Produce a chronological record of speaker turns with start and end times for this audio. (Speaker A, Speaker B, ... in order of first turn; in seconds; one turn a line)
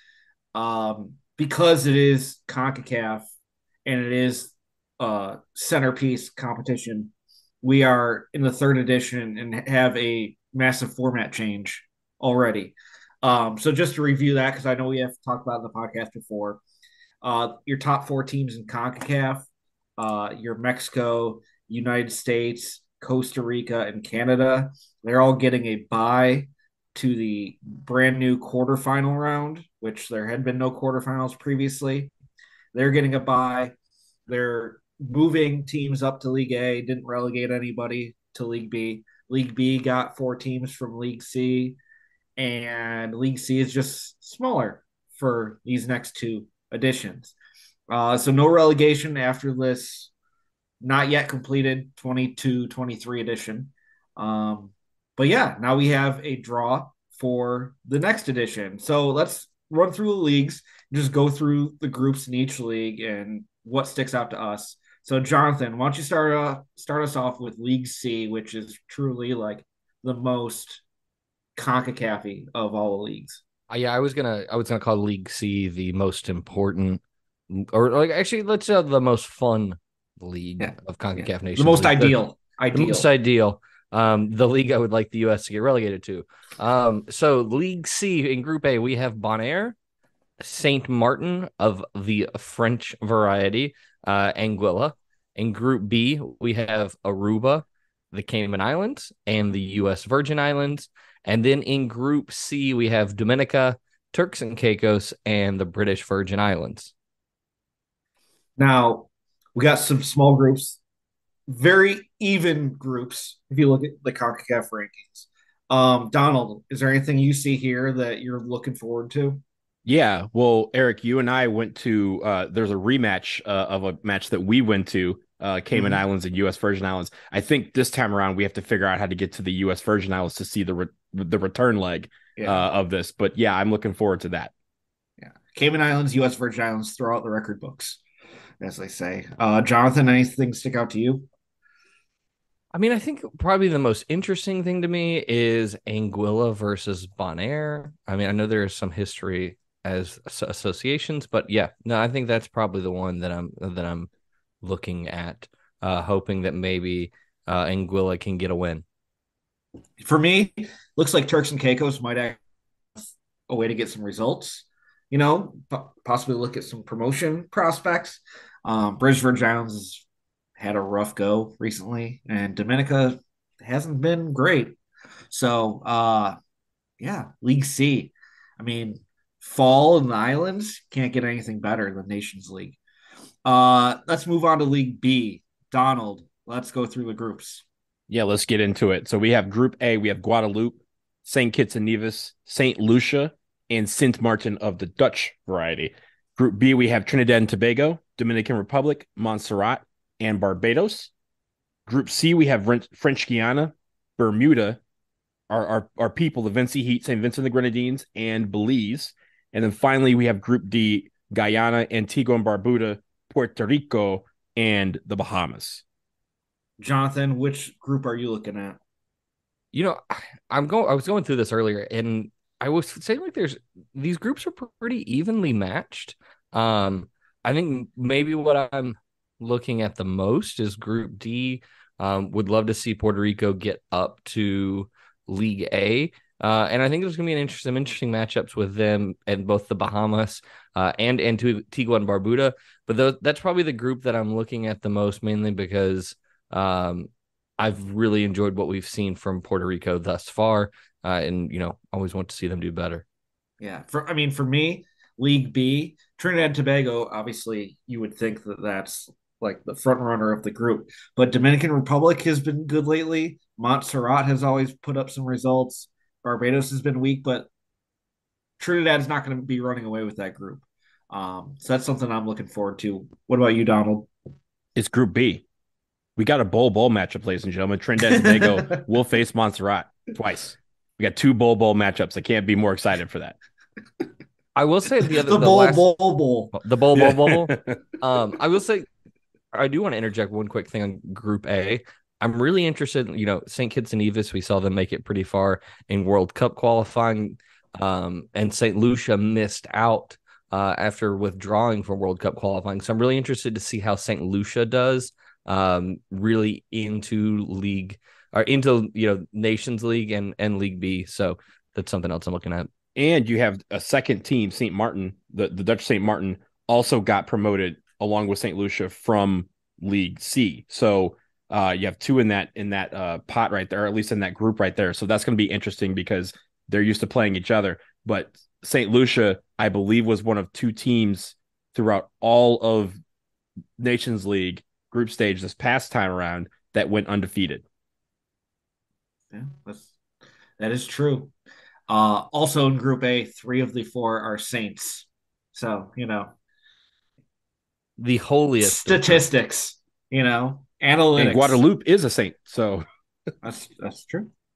Speaker A: 0.5-3.3
Speaker A: 3.9-16.6
Speaker A: 17.2-19.4
Speaker A: 20.0-32.1
Speaker A: 32.7-33.7
Speaker A: 34.3-41.8
Speaker A: 42.4-47.3
Speaker A: 47.9-50.1
Speaker A: 50.8-70.8
Speaker A: 71.5-73.4
Speaker B: 73.7-82.2
Speaker A: 80.6-83.1
Speaker B: 82.7-89.8
Speaker B: 90.4-106.9
Speaker A: 108.6-110.8
Speaker A: 111.5-119.4
Speaker C: 119.8-134.5
Speaker A: 125.7-126.0
Speaker A: 132.3-132.7
Speaker A: 135.2-138.0
Speaker A: 138.6-141.3
Speaker B: 142.7-154.1
Speaker B: 154.6-158.8
Speaker A: 160.0-162.4
Speaker A: 163.0-170.0
Speaker A: 170.6-174.8
Speaker A: 175.3-176.4
Speaker A: 177.0-182.8
Speaker A: 183.4-187.6
Speaker C: 188.1-201.1
Speaker C: 201.9-204.8
Speaker C: 205.5-215.8
Speaker A: 216.8-218.8
Speaker B: 219.7-253.0
Speaker A: 253.6-267.5
Speaker A: 268.6-274.1
Speaker C: 274.8-275.4
Speaker C: 276.2-283.4
Speaker A: 278.1-278.8
Speaker B: 284.5-285.9
Speaker A: 285.2-286.6
Speaker B: 286.5-288.9
Speaker C: 287.0-287.8
Speaker B: 289.5-312.7
Speaker C: 312.9-333.0
Speaker C: 333.8-337.6
Speaker A: 339.3-339.9
Speaker A: 340.6-341.3
Speaker A: 341.9-346.3
Speaker B: 348.0-349.2
Speaker A: 348.6-351.6
Speaker C: 351.1-352.8
Speaker A: 353.4-354.3